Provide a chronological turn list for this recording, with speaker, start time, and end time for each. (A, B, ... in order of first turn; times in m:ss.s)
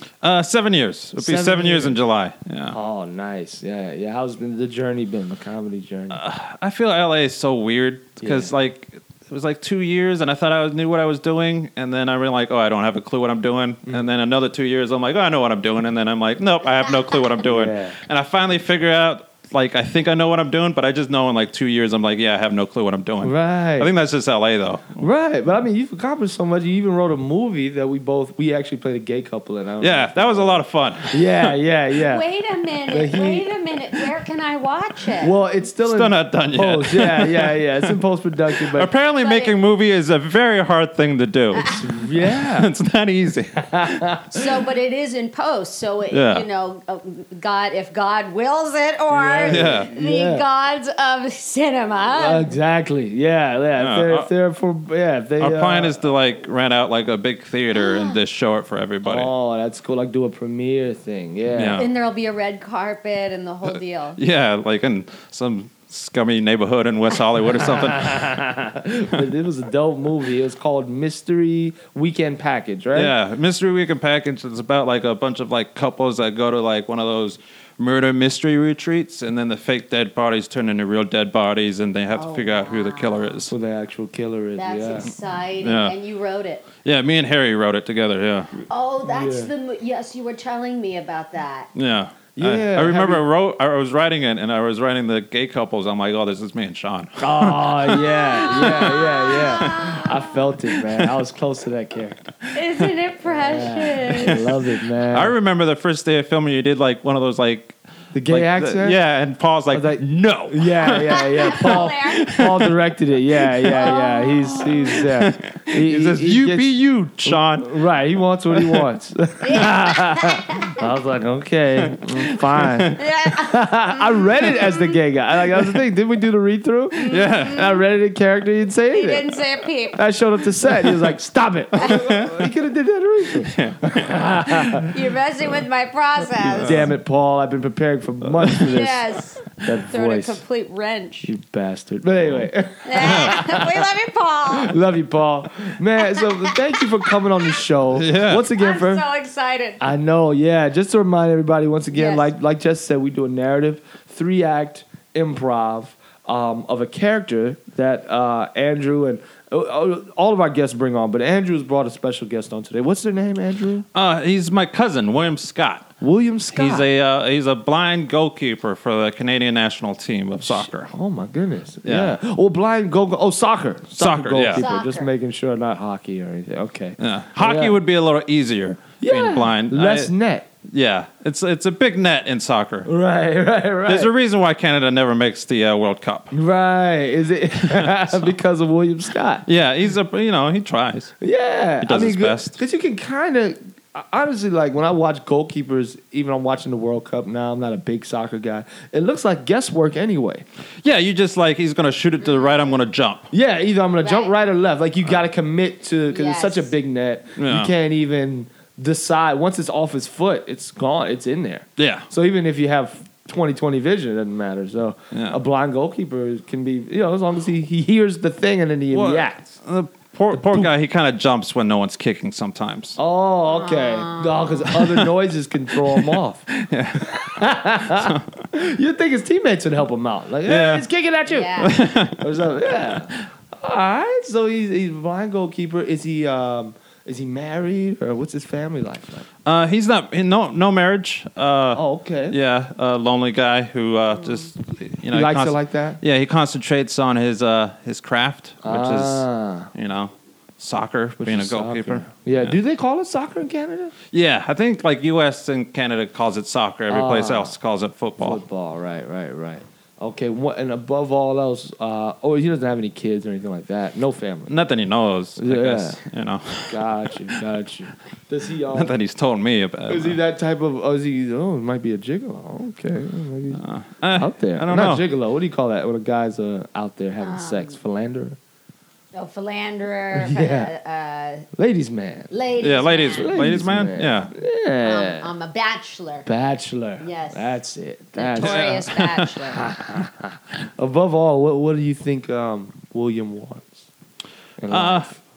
0:00.2-0:02.8 A
0:01.2-0:02.0 B
0:02.7-0:06.2 B
0:06.1-0:25.1 A
0:08.2-0:08.5 B
0:13.9-0:14.1 B
0:17.4-0:18.0 B
0:23.2-0:23.9 B
0:25.0-0:32.2 B
0:29.8-0:31.5 A
0:32.1-0:35.4 C
0:32.9-0:33.5 B
0:35.2-0:38.9 B
0:35.8-0:38.0 A
0:38.6-0:41.6 A
0:39.2-0:39.6 C
0:41.5-0:41.9 C
0:41.6-0:42.7 B
0:42.2-0:43.6 A
0:43.6-0:44.5 B
0:44.3-0:52.5 C
0:46.1-0:46.4 A
0:49.1-0:50.5 B
0:49.5-0:49.9 A
0:52.2-0:56.0 B
0:53.8-0:54.3 A
0:55.4-0:59.3 A
0:57.8-0:58.2 C
0:59.0-1:01.8 B
1:01.5-1:01.9 A
1:01.8-1:04.2 C
1:03.7-1:08.4 A
1:07.4-1:13.1 B
1:12.9-1:23.5 A
1:22.2-1:23.4 C
1:23.5-1:25.1 B
1:24.6-1:26.7 C
1:25.6-1:26.0 A
1:26.8-1:28.5 A
1:28.7-1:31.7 C
1:29.1-1:29.5 B
1:31.8-1:40.0 A
1:32.4-1:33.2 B
1:37.2-1:42.2 B
1:38.2-1:40.3 C
1:40.6-1:41.1 A
1:42.5-1:44.4 C
1:43.2-1:45.4 B
1:44.1-1:52.8 A
1:48.1-1:49.0 B
1:49.7-2:09.3 B
1:51.1-1:52.3 C
1:53.4-1:54.0 A
1:53.7-1:55.1 C
1:54.7-1:57.7 A
1:58.5-1:58.8 A
1:59.4-2:00.8 C
2:01.9-2:03.0 A
2:03.0-2:04.9 C
2:06.9-2:07.8 C
2:07.1-2:07.7 A
2:08.9-2:10.0 C
2:10.0-2:14.9 B
2:11.8-2:12.5 A
2:13.4-2:14.9 A
2:14.9-2:16.8 C
2:16.4-2:19.0 B
2:16.5-2:16.9 A
2:18.4-2:18.7 A
2:18.7-2:21.3 C
2:19.6-2:20.4 B
2:21.2-2:23.8 B
2:22.8-2:24.8 C
2:23.0-2:23.4 A
2:24.5-2:29.0 B
2:26.0-2:26.6 C
2:27.9-2:28.5 A
2:28.5-2:29.8 C
2:29.8-2:43.9 B
2:31.9-2:32.3 C
2:44.0-2:45.9 A
2:46.0-2:46.9 B
2:46.5-2:50.9 A
2:50.4-2:57.8 B
2:51.8-2:52.2 A
2:54.0-2:54.6 A
2:54.6-2:55.1 C
2:57.0-3:00.1 A
2:59.0-3:00.5 B
3:00.7-3:02.9 A
3:02.8-3:04.1 B
3:03.9-3:06.3 A
3:06.3-3:09.5 B
3:07.6-3:08.2 A
3:09.5-3:11.1 A
3:11.2-3:20.4 B
3:11.8-3:12.6 A
3:20.8-3:23.3 A
3:23.3-3:39.5 B
3:24.0-3:24.3 C
3:26.1-3:26.7 C
3:27.4-3:27.7 A
3:31.8-3:32.1 A
3:35.1-3:35.4 A
3:38.9-3:43.0 A
3:40.3-3:40.7 B
3:43.0-3:46.5 B
3:43.5-3:44.7 C
3:44.7-3:45.1 A
3:45.9-3:47.3 A
3:47.0-3:59.3 B
3:47.9-3:48.3 A
3:50.5-3:50.8 A
3:51.3-3:51.8 C
3:51.6-3:52.3 A
3:59.5-4:12.5 A
4:01.7-4:02.4 B
4:05.1-4:06.0 B
4:08.6-4:09.7 B
4:11.2-4:13.9 B
4:14.1-4:18.4 A
4:16.9-4:17.5 B
4:18.2-4:24.6 B
4:24.5-4:26.9 A
4:25.4-4:26.0 B
4:26.7-4:29.0 B
4:28.7-4:30.2 A
4:29.9-4:33.6 B
4:33.6-4:35.0 A
4:34.1-4:38.4 B
4:37.2-4:37.8 C
4:39.1-4:41.5 C
4:40.1-4:40.7 B
4:41.5-4:42.3 B
4:42.3-4:43.4 C
4:42.6-4:44.3 A
4:43.1-4:45.3 B
4:44.8-4:46.3 C
4:46.3-4:48.8 B
4:47.0-4:47.6 C
4:48.2-4:49.7 C
4:48.4-4:49.4 A
4:49.5-4:53.9 B
4:54.6-4:55.2 B
4:54.7-4:55.1 A